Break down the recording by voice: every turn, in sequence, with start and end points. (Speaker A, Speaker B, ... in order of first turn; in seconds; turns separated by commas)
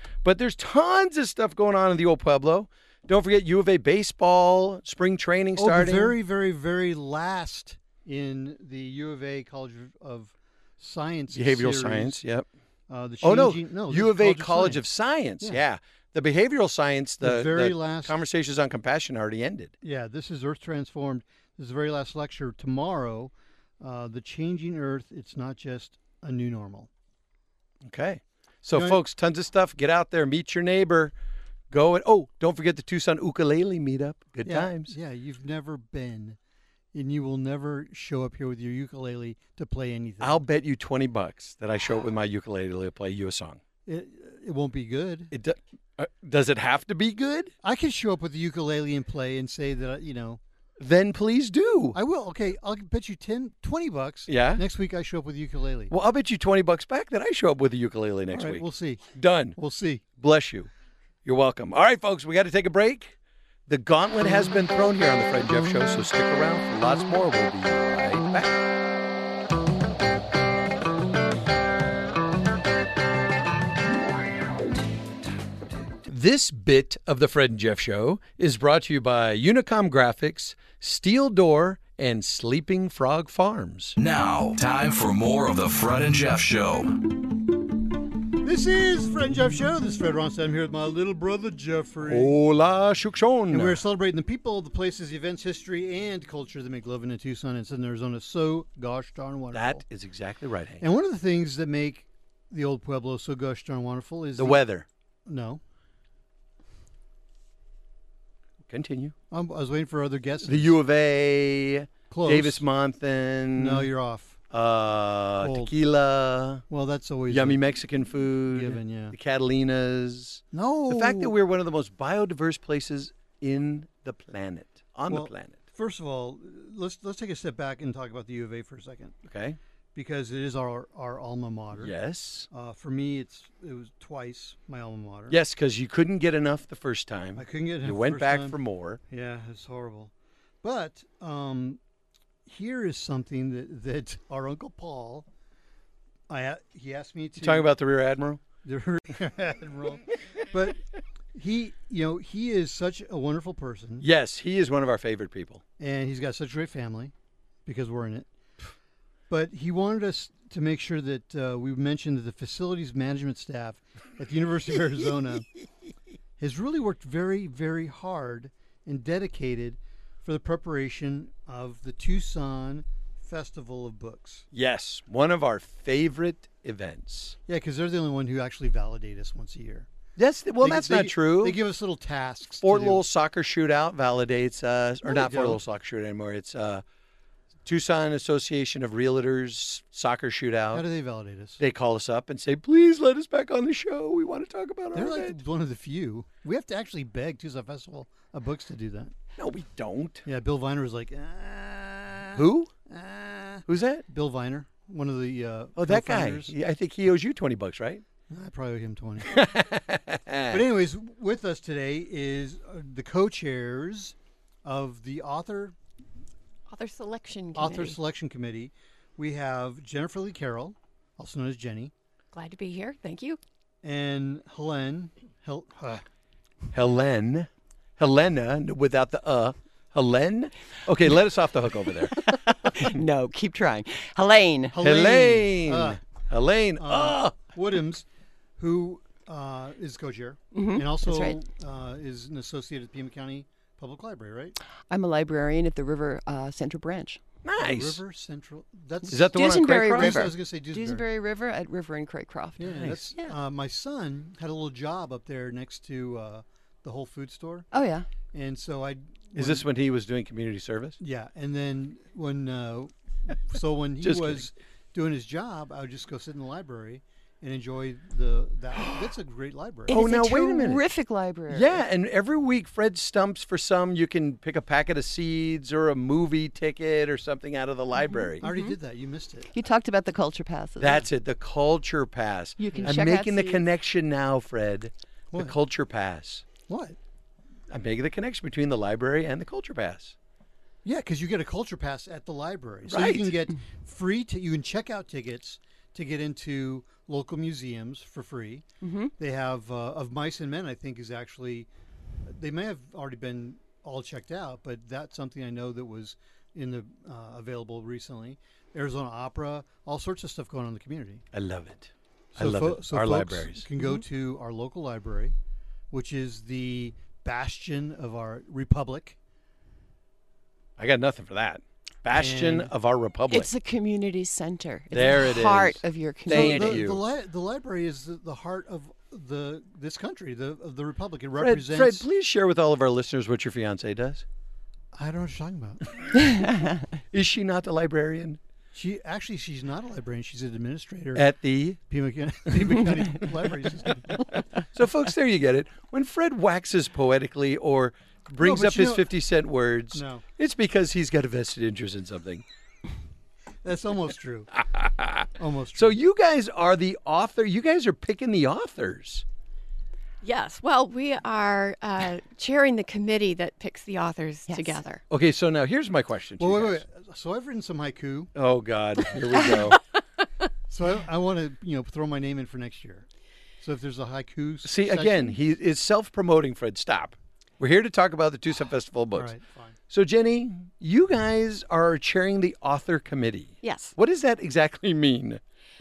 Speaker A: 0.2-6.2, Speaker B: 5.6-12.2, Speaker A: 11.3-12.5, Speaker B: 12.9-14.8, Speaker A: 13.2-19.7, Speaker B: 17.2-18.2, Speaker B: 19.8-26.9, Speaker A: 27.8-31.1, Speaker B: 28.7-29.0, Speaker A: 31.7-35.0, Speaker B: 34.5-36.4, Speaker B: 36.9-40.4, Speaker A: 40.2-43.6, Speaker B: 43.9-45.3, Speaker A: 45.3-47.5, Speaker B: 47.6-50.4, Speaker A: 50.8-52.0, Speaker B: 51.9-55.9, Speaker A: 54.3-54.6, Speaker A: 55.9-59.6, Speaker B: 58.3-60.0, Speaker A: 60.2-60.7, Speaker A: 61.2-63.1, Speaker A: 63.7-68.6, Speaker A: 76.0-84.0, Speaker C: 84.0-87.1, Speaker B: 88.4-92.3, Speaker A: 92.1-93.8, Speaker B: 93.5-99.8, Speaker A: 99.5-100.8, Speaker B: 100.8-104.6, Speaker A: 104.4-104.9, Speaker B: 105.3-105.6, Speaker A: 108.7-109.2, Speaker B: 109.3-110.7, Speaker A: 110.5-113.9, Speaker B: 112.1-112.7, Speaker B: 113.6-114.4, Speaker A: 114.5-116.6, Speaker B: 115.4-115.7, Speaker B: 116.7-117.6, Speaker A: 117.3-125.6, Speaker B: 118.5-119.2, Speaker B: 120.5-121.3, Speaker B: 125.1-129.2, Speaker A: 129.2-129.6, Speaker B: 129.9-131.9, Speaker A: 131.7-132.5, Speaker B: 132.5-135.4, Speaker A: 135.3-139.0, Speaker B: 137.4-138.6, Speaker B: 139.1-140.1, Speaker B: 140.6-141.8, Speaker B: 142.5-145.3, Speaker B: 146.3-147.7, Speaker A: 147.4-148.4, Speaker B: 148.6-150.8, Speaker B: 151.3-154.1, Speaker A: 154.0-155.6, Speaker B: 155.8-157.1, Speaker B: 157.7-158.3, Speaker B: 159.3-165.5, Speaker B: 166.4-174.5, Speaker A: 174.5-177.4, Speaker B: 177.5-179.9, Speaker A: 180.2-181.6, Speaker B: 180.6-183.0, Speaker A: 182.6-186.8, Speaker B: 185.0-185.6, Speaker A: 187.7-190.8, Speaker B: 190.7-191.6, Speaker A: 191.6-195.4, Speaker B: 194.9-199.1, Speaker A: 199.4-200.3, Speaker B: 200.2-206.5, Speaker A: 202.3-202.7, Speaker A: 203.7-204.1, Speaker A: 205.8-208.0, Speaker B: 208.3-209.3, Speaker A: 209.3-210.6, Speaker B: 210.5-215.8, Speaker D: 216.7-218.0, Speaker B: 217.6-221.9, Speaker D: 222.3-223.4, Speaker B: 223.8-226.0, Speaker A: 226.7-232.2, Speaker E: 232.2-234.8, Speaker B: 234.7-236.0, Speaker A: 234.8-237.3, Speaker B: 236.8-238.1, Speaker B: 238.6-244.6, Speaker E: 240.5-241.4, Speaker E: 244.9-247.2, Speaker A: 247.4-248.0, Speaker B: 247.6-251.1, Speaker A: 249.1-250.3, Speaker E: 249.3-253.3, Speaker B: 252.6-257.7, Speaker A: 252.7-253.1, Speaker E: 257.7-258.1, Speaker B: 258.3-259.6, Speaker A: 259.4-261.0, Speaker B: 261.0-270.0, Speaker A: 264.0-264.5, Speaker E: 269.9-271.8, Speaker A: 269.9-270.8, Speaker A: 271.5-278.5, Speaker E: 278.0-278.8, Speaker B: 278.4-279.5, Speaker E: 279.5-281.1, Speaker A: 280.8-286.4, Speaker E: 282.6-283.6, Speaker B: 282.7-283.0, Speaker B: 286.7-287.0, Speaker A: 287.7-290.2, Speaker B: 290.8-298.7, Speaker A: 292.9-293.3, Speaker E: 298.8-299.1, Speaker B: 299.2-301.7, Speaker B: 302.2-311.2, Speaker A: 311.3-313.6, Speaker B: 312.4-315.4, Speaker B: 315.9-319.2, Speaker A: 320.8-323.5, Speaker B: 322.1-322.7, Speaker E: 323.3-326.8, Speaker A: 324.9-327.0, Speaker B: 326.3-332.1, Speaker A: 331.4-334.2, Speaker B: 334.9-336.2, Speaker E: 336.2-336.8, Speaker A: 337.1-338.4, Speaker B: 338.7-344.3, Speaker A: 341.1-341.8, Speaker A: 344.7-352.4, Speaker B: 348.4-349.1, Speaker B: 349.9-350.2, Speaker B: 353.6-354.5, Speaker A: 354.6-359.2, Speaker B: 355.4-356.0, Speaker D: 360.2-365.0, Speaker E: 364.5-364.8, Speaker A: 365.1-366.8, Speaker B: 366.4-368.3, Speaker A: 368.4-369.8, Speaker B: 370.7-373.1, Speaker B: 373.6-375.4, Speaker A: 374.6-379.3, Speaker B: 379.1-379.8, Speaker A: 379.9-385.4, Speaker D: 383.6-383.9